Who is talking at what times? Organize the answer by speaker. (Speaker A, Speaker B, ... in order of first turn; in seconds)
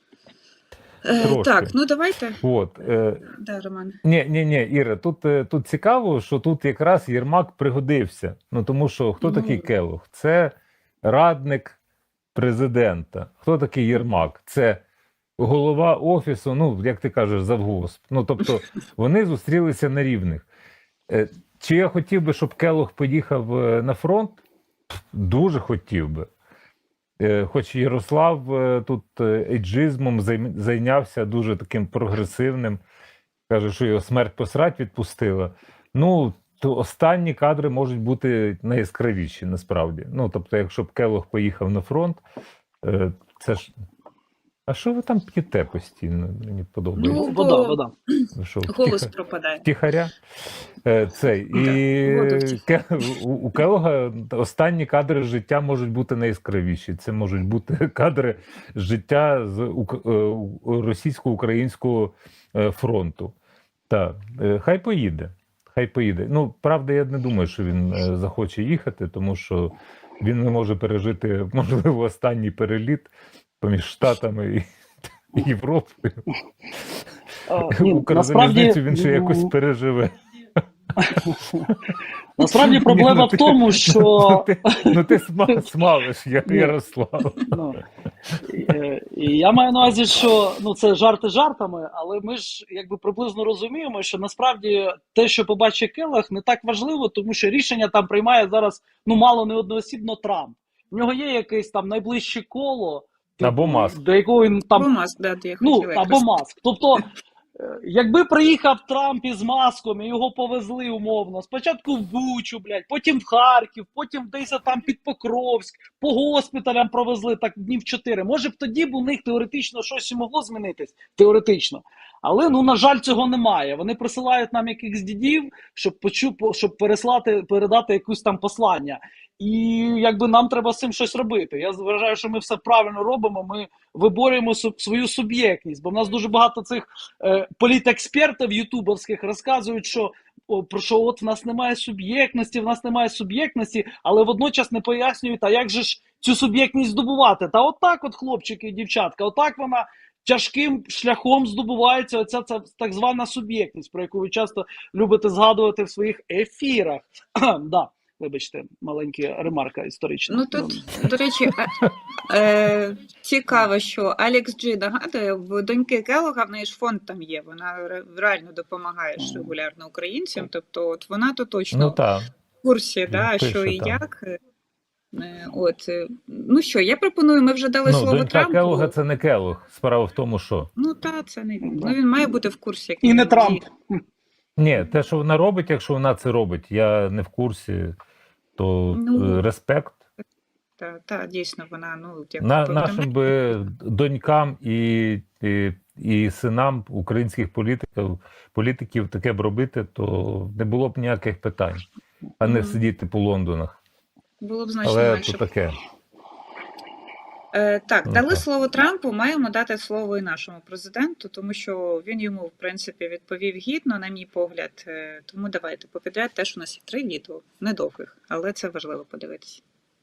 Speaker A: 1.0-2.4, 3.3-4.0, 9.2-9.7, 47.0-49.6, 51.5-53.1, 104.7-106.3, 160.3-172.0, 172.6-174.3, 175.1-178.9, 180.8-183.6, 188.9-189.4, 190.8-193.2, 202.4-202.8, 204.4-205.4, 207.5-219.6
Speaker B: 1.2-1.7, 2.4-3.2, 4.0-11.8, 12.3-14.8, 15.4-20.5, 21.1-26.3, 27.2-32.8, 33.5-42.2, 42.8-43.7, 44.7-47.2, 48.4-49.1, 49.6-50.1, 50.8-63.3, 63.9-73.1, 73.6-74.6, 75.3-76.2, 77.5-81.3, 82.4-87.6, 103.4-104.0, 171.7-172.3, 173.1-174.0, 177.8-180.7, 184.6-187.9, 188.6-190.0, 192.4-201.8, 202.4-203.8, 204.8-205.8, 208.1-208.4
Speaker C: 47.1-47.9, 77.5-79.5, 81.0-81.7, 82.4-85.0, 86.5-86.7, 87.4-87.8, 88.5-104.9, 105.6-160.9, 169.2-169.5, 181.6-182.0, 183.0-184.0